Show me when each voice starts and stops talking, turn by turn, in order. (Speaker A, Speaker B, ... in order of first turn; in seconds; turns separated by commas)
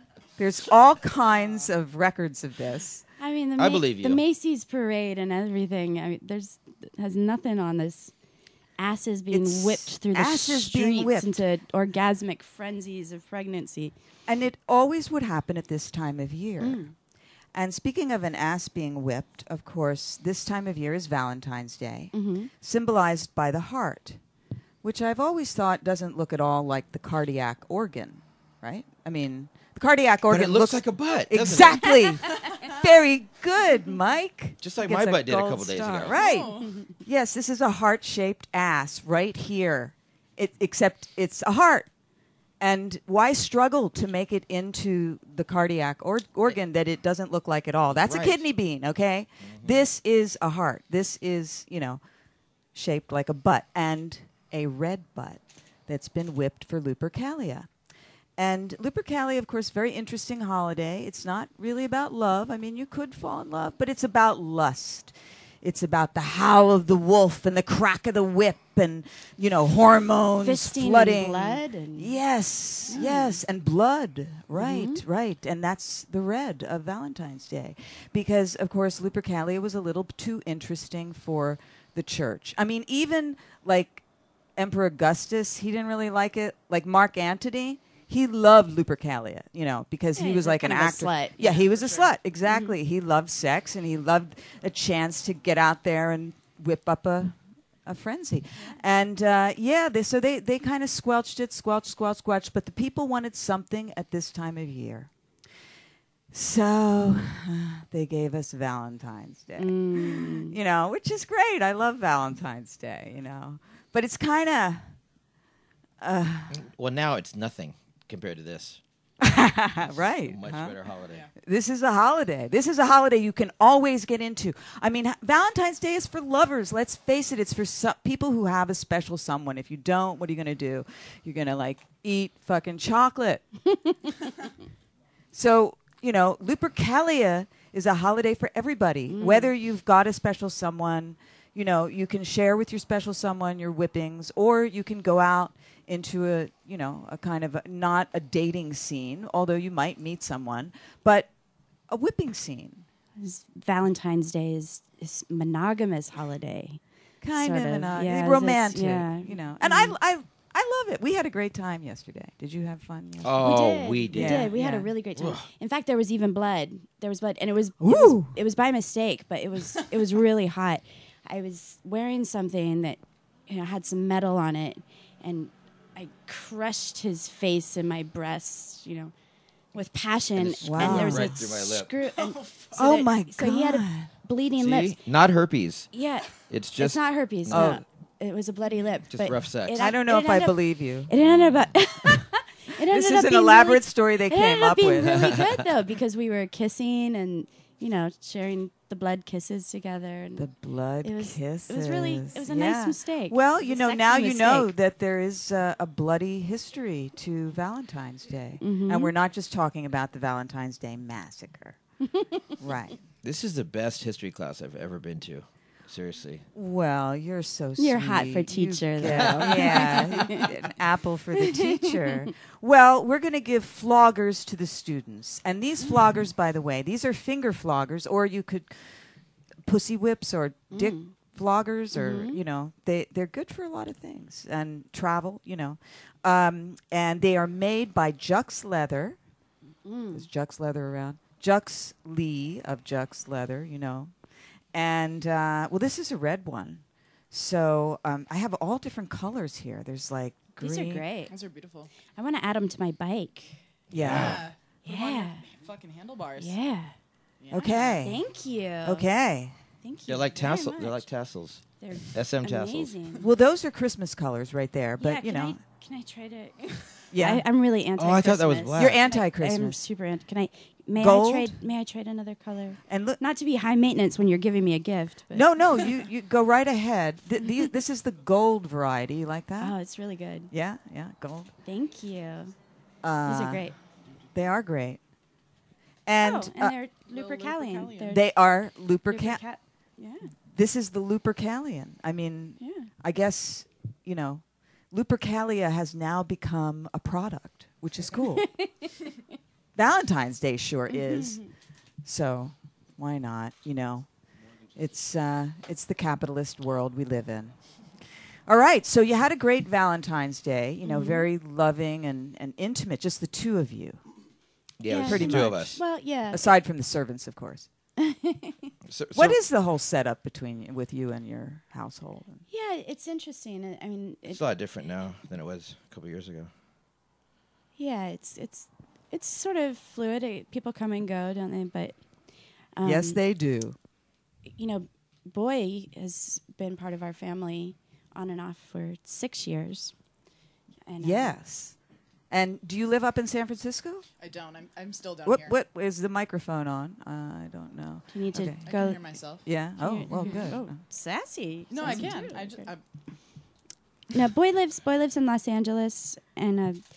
Speaker A: 0.4-3.0, Speaker B: 3.2-8.1, Speaker C: 3.6-4.2, Speaker B: 8.8-13.9, Speaker A: 9.3-11.4, Speaker A: 14.3-16.8, Speaker B: 16.6-16.9, Speaker A: 17.5-24.2, Speaker B: 22.1-22.5, Speaker A: 24.8-41.9, Speaker C: 30.3-32.1, Speaker C: 34.6-36.1, Speaker D: 36.1-36.8, Speaker A: 42.6-52.0, Speaker C: 48.0-48.4, Speaker C: 49.5-49.8, Speaker A: 52.7-57.7, Speaker A: 58.4-84.0, Speaker B: 70.4-72.2, Speaker B: 72.9-73.4, Speaker B: 74.5-75.0, Speaker A: 84.6-105.1, Speaker B: 90.1-91.4, Speaker D: 91.4-92.1, Speaker B: 92.5-92.7, Speaker A: 106.3-114.9, Speaker B: 109.6-110.5, Speaker A: 116.0-116.6, Speaker C: 116.5-118.8, Speaker A: 119.2-120.7, Speaker C: 119.9-121.2, Speaker A: 121.4-133.4, Speaker A: 135.3-151.3, Speaker B: 139.1-139.5, Speaker A: 151.9-152.8, Speaker B: 153.2-156.8, Speaker A: 157.2-164.9, Speaker B: 157.4-159.9, Speaker C: 163.2-164.5, Speaker B: 163.4-179.1, Speaker C: 165.2-165.5, Speaker A: 167.8-168.4, Speaker B: 179.7-185.0, Speaker C: 180.3-181.9, Speaker A: 180.6-181.4, Speaker D: 182.1-182.9, Speaker A: 182.7-184.1, Speaker C: 184.6-185.9, Speaker B: 185.9-200.5, Speaker C: 186.5-187.7, Speaker A: 187.5-187.8, Speaker C: 189.1-189.8, Speaker A: 189.8-191.1, Speaker C: 191.2-191.7, Speaker A: 192.8-195.4, Speaker C: 195.2-195.5, Speaker A: 200.4-211.8, Speaker B: 201.0-204.7, Speaker B: 208.6-209.1, Speaker A: 212.6-213.0, Speaker C: 213.2-216.4, Speaker A: 216.5-228.7, Speaker B: 217.8-220.5, Speaker C: 219.0-219.9, Speaker B: 221.4-222.3, Speaker A: 229.6-239.2, Speaker B: 230.7-231.1, Speaker B: 231.9-232.4, Speaker B: 239.8-240.2, Speaker A: 240.1-244.1, Speaker A: 244.7-251.1, Speaker B: 250.6-251.3, Speaker D: 251.3-251.9, Speaker B: 252.2-253.6, Speaker A: 253.9-254.4, Speaker C: 253.9-254.4, Speaker D: 254.0-256.6, Speaker B: 254.8-255.4, Speaker B: 256.4-256.9, Speaker D: 257.4-258.1, Speaker A: 257.5-258.2, Speaker B: 258.0-259.1, Speaker A: 258.8-259.6, Speaker B: 259.8-261.0, Speaker C: 260.1-262.9, Speaker B: 261.8-263.2, Speaker A: 263.2-265.6, Speaker B: 265.0-275.9, Speaker A: 267.1-267.4, Speaker C: 268.0-269.0, Speaker A: 268.8-269.8, Speaker A: 271.0-271.6, Speaker A: 272.9-273.2, Speaker A: 275.3-279.8, Speaker B: 279.6-280.5, Speaker A: 280.5-281.5, Speaker B: 281.6-282.5, Speaker A: 283.0-283.7, Speaker B: 283.2-283.8, Speaker A: 284.3-285.0, Speaker A: 286.1-286.8, Speaker B: 286.2-288.2, Speaker D: 287.1-288.2, Speaker A: 288.1-289.4, Speaker B: 289.1-290.3, Speaker A: 290.5-298.5, Speaker B: 292.6-292.9, Speaker B: 298.2-298.9, Speaker A: 299.8-301.4, Speaker B: 301.0-301.4, Speaker A: 302.0-304.1, Speaker A: 304.7-307.5, Speaker A: 308.5-314.0, Speaker B: 310.8-311.2, Speaker C: 314.8-315.8, Speaker B: 314.8-316.5, Speaker A: 315.0-317.7, Speaker B: 318.0-318.7, Speaker C: 318.9-319.4, Speaker A: 319.1-322.4, Speaker B: 322.5-324.4, Speaker C: 324.3-326.5, Speaker B: 327.8-331.9, Speaker B: 332.7-333.2, Speaker A: 332.8-333.8, Speaker B: 334.5-339.9, Speaker B: 340.9-341.4, Speaker A: 341.0-341.8, Speaker A: 342.3-344.1, Speaker D: 344.2-345.6, Speaker A: 345.2-348.6, Speaker B: 348.1-349.0, Speaker D: 348.6-349.4, Speaker A: 349.4-350.8, Speaker B: 349.8-352.7, Speaker D: 350.1-350.4, Speaker D: 351.7-352.8, Speaker B: 354.1-356.8